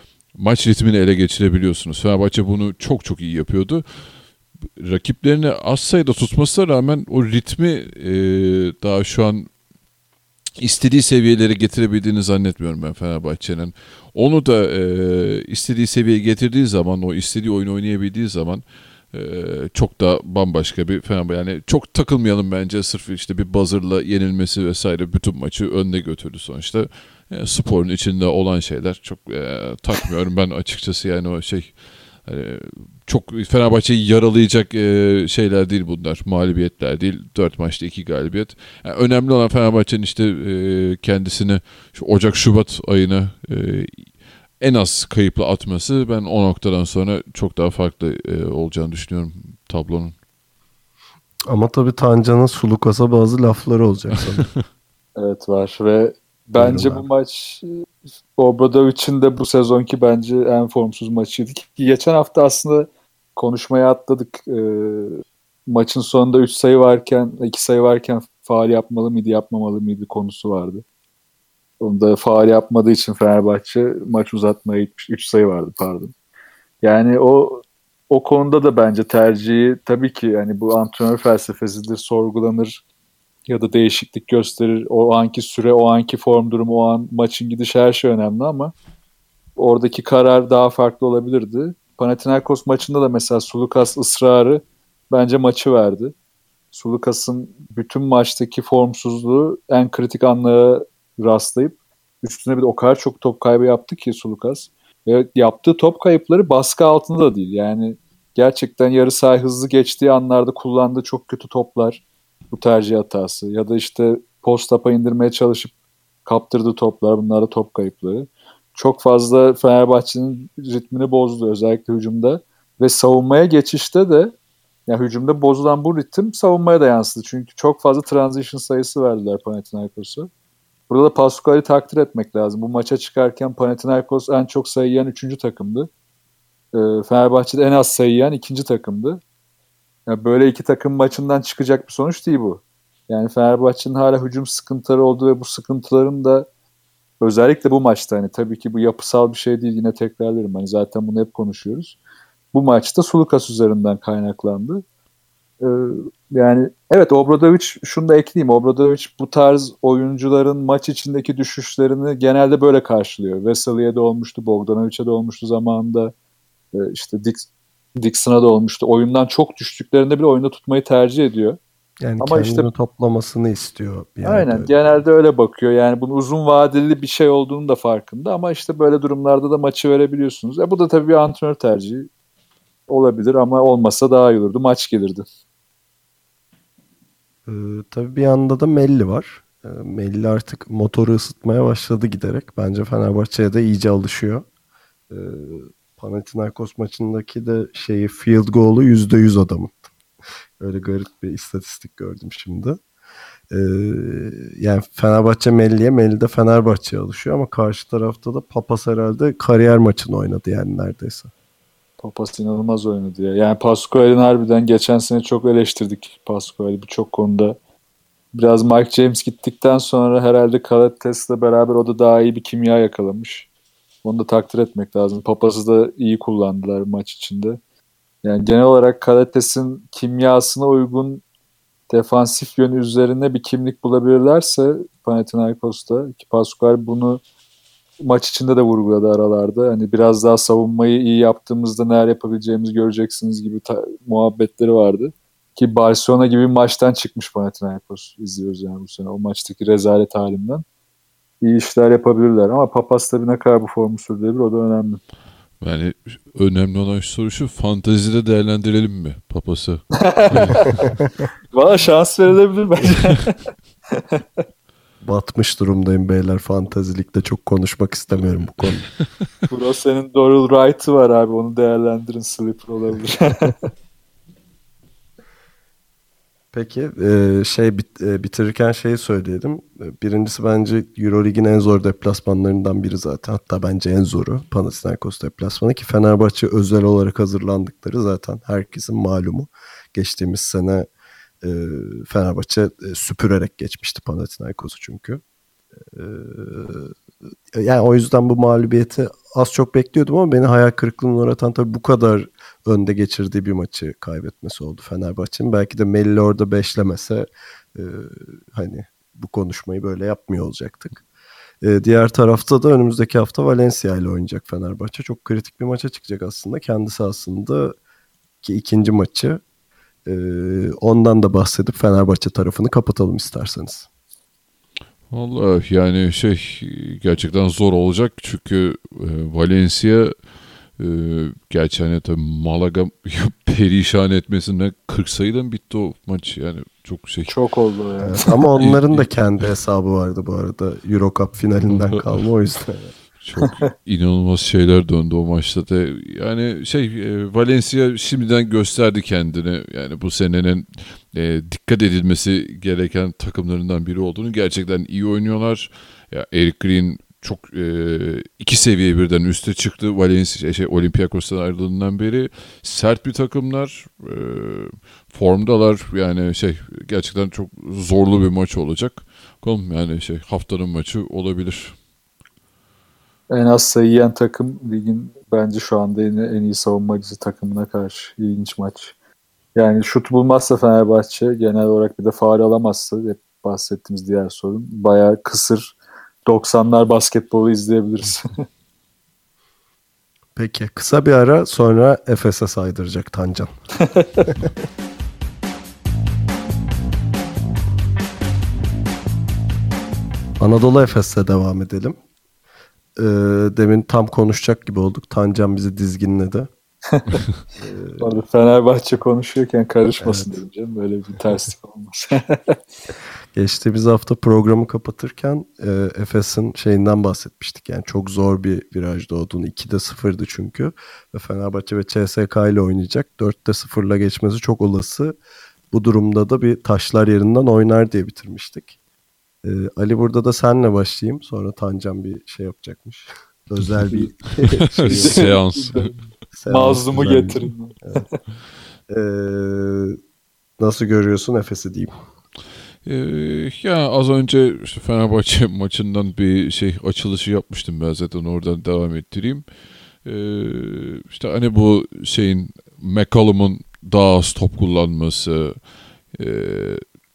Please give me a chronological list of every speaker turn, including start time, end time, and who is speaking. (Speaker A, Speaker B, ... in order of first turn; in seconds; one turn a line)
Speaker A: 0.3-9.5
Speaker A: 10.6-50.1
Speaker B: 51.5-54.5
Speaker C: 55.1-70.8
Speaker B: 56.5-57.0
Speaker C: 71.8-76.1
Speaker C: 76.8-82.8
Speaker C: 83.5-88.7
Speaker C: 89.5-96.1
Speaker C: 96.7-115.7
Speaker C: 116.2-124.3
Speaker C: 124.9-130.3
Speaker C: 130.9-135.9
Speaker C: 136.7-139.2
Speaker C: 140.1-146.5
Speaker C: 147.2-151.9
Speaker C: 152.5-154.8
Speaker C: 155.6-166.1
Speaker C: 166.7-167.5
Speaker C: 168.0-171.6
Speaker B: 172.0-174.7
Speaker C: 172.2-172.7
Speaker C: 174.2-182.1
Speaker C: 182.9-185.2
Speaker B: 187.4-194.5
Speaker B: 195.1-199.7
Speaker B: 200.6-202.8
Speaker B: 203.5-211.3
Speaker C: 212.0-217.6
Speaker C: 218.3-223.5
Speaker C: 224.0-227.6
Speaker C: 228.2-231.2
Speaker C: 231.9-237.2
Speaker C: 238.0-250.6
Speaker C: 251.4-255.0
Speaker A: 255.6-260.9
Speaker C: 260.0-260.7
Speaker C: 261.5-263.4
Speaker B: 265.0-268.9
Speaker C: 269.5-273.6
Speaker B: 276.5-290.9
Speaker B: 291.4-295.2
Speaker B: 295.9-296.9
Speaker B: 297.5-311.0
Speaker B: 311.6-317.7
Speaker B: 318.4-319.4
Speaker B: 320.1-323.9
Speaker A: 325.1-330.1
Speaker A: 330.8-337.4
Speaker C: 337.3-338.4
Speaker B: 338.0-342.9
Speaker A: 338.6-339.1
Speaker A: 341.7-342.2
Speaker A: 343.2-371.8
Speaker C: 373.3-378.9
Speaker C: 379.5-385.7
Speaker C: 386.2-388.3
Speaker B: 390.4-393.5
Speaker C: 393.8-394.2
Speaker B: 400.4-402.0
Speaker B: 402.9-406.5
Speaker C: 406.9-407.2
Speaker B: 407.6-408.1
Speaker C: 408.0-412.6
Speaker B: 410.0-410.4
Speaker B: 413.3-425.2
Speaker B: 425.7-428.7
Speaker B: 429.4-435.2
Speaker A: 434.4-435.9
Speaker C: 434.9-438.2
Speaker B: 436.3-438.0
Speaker B: 438.9-440.0
Speaker B: 440.6-441.9
Speaker A: 442.8-449.4
Speaker A: 450.0-456.8